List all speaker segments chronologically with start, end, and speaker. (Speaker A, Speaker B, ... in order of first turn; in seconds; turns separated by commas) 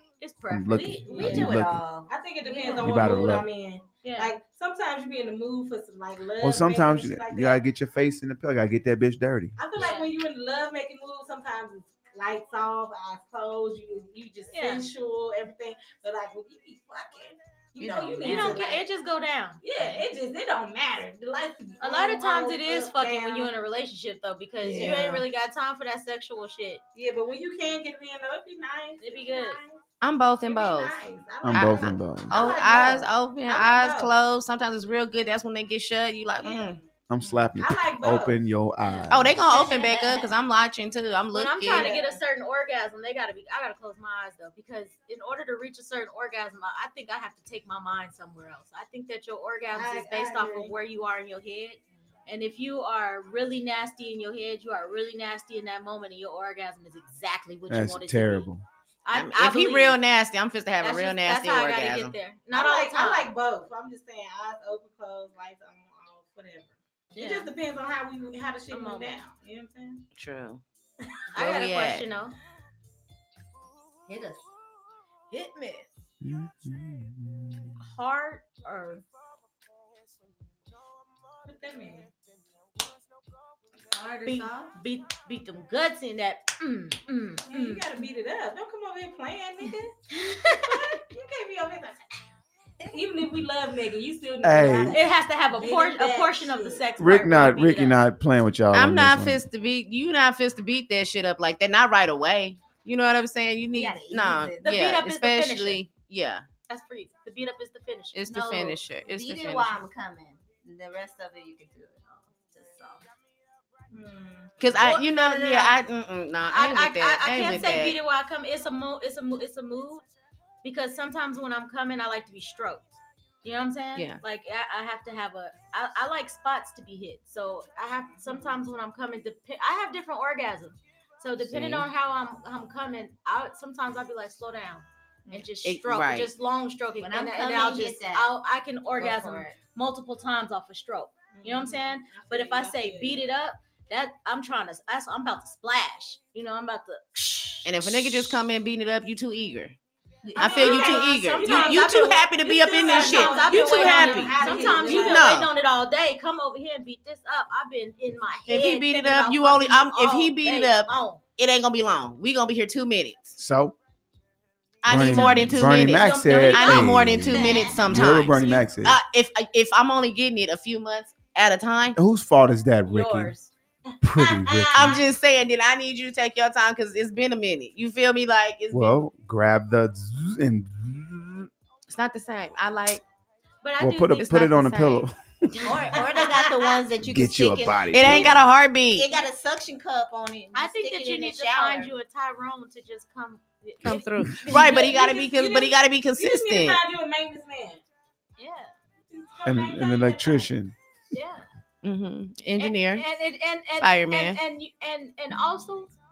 Speaker A: 0.2-1.7, Speaker B: 0.5-1.8, Speaker C: 1.1-1.5, Speaker D: 1.2-3.3, Speaker C: 2.1-7.6, Speaker B: 2.8-3.5, Speaker A: 3.0-3.4, Speaker A: 4.0-4.3, Speaker B: 6.4-9.6, Speaker C: 9.6-18.8, Speaker A: 9.8-10.1, Speaker A: 14.5-14.9, Speaker D: 17.8-18.8, Speaker A: 18.2-19.6, Speaker C: 19.6-23.5, Speaker A: 21.8-26.8, Speaker C: 24.6-25.2, Speaker D: 24.8-25.0, Speaker C: 27.0-29.8, Speaker A: 29.0-29.6, Speaker E: 30.0-31.0, Speaker C: 30.4-34.2, Speaker B: 31.4-32.5, Speaker E: 31.5-36.8, Speaker C: 36.4-36.9, Speaker B: 37.1-39.4, Speaker C: 37.6-38.4, Speaker E: 39.1-41.9, Speaker A: 39.5-40.3, Speaker A: 41.3-58.5, Speaker C: 41.6-42.2, Speaker C: 49.7-50.7, Speaker B: 57.7-58.6, Speaker A: 59.0-60.0, Speaker E: 59.1-62.1, Speaker A: 60.8-63.3, Speaker C: 62.5-70.0, Speaker A: 67.2-67.5, Speaker A: 68.7-69.2, Speaker E: 70.2-70.6, Speaker A: 71.3-72.4, Speaker E: 71.4-72.1, Speaker D: 74.1-74.5, Speaker D: 75.3-75.9, Speaker B: 76.2-77.8, Speaker A: 77.8-79.0, Speaker C: 81.5-82.1, Speaker D: 83.9-84.8, Speaker A: 84.2-87.8, Speaker C: 87.5-89.9, Speaker A: 90.1-90.9, Speaker C: 90.7-92.0, Speaker C: 92.9-96.8, Speaker B: 94.4-95.0, Speaker A: 94.9-98.0, Speaker B: 97.0-99.4, Speaker E: 98.7-106.5, Speaker D: 103.7-104.8, Speaker A: 104.6-105.8, Speaker A: 106.7-108.2, Speaker E: 108.1-109.7, Speaker D: 108.3-113.0, Speaker C: 113.9-114.5, Speaker E: 114.6-118.0, Speaker A: 114.7-115.8, Speaker A: 116.5-120.1, Speaker A: 120.6-148.3, Speaker E: 131.5-131.9, Speaker E: 135.6-136.3, Speaker D: 137.0-138.3, Speaker D: 139.0-139.6, Speaker C: 141.3-143.2, Speaker E: 147.7-149.8, Speaker D: 150.2-151.0, Speaker E: 150.4-155.5, Speaker C: 150.4-155.4, Speaker A: 150.4-161.2, Speaker D: 154.4-154.8, Speaker E: 158.5-163.3, Speaker B: 163.4-163.8, Speaker E: 164.8-172.0, Speaker B: 164.9-169.0, Speaker A: 165.0-167.8, Speaker D: 167.3-168.1, Speaker B: 172.0-173.3, Speaker A: 172.9-173.5, Speaker B: 174.0-175.1, Speaker C: 174.2-175.0, Speaker A: 174.7-175.0, Speaker E: 174.7-179.0, Speaker B: 178.7-181.5, Speaker E: 181.9-183.0, Speaker A: 183.6-184.7, Speaker B: 183.8-185.8, Speaker E: 184.2-185.0, Speaker A: 185.5-186.4, Speaker D: 185.6-191.9, Speaker B: 187.0-188.4, Speaker E: 187.9-189.1, Speaker A: 190.5-195.2, Speaker E: 193.8-196.8, Speaker C: 194.5-197.8, Speaker A: 198.4-198.7, Speaker C: 199.1-200.5, Speaker B: 199.4-200.7, Speaker A: 201.1-201.5, Speaker E: 201.8-203.1, Speaker A: 202.6-205.9, Speaker E: 203.8-204.4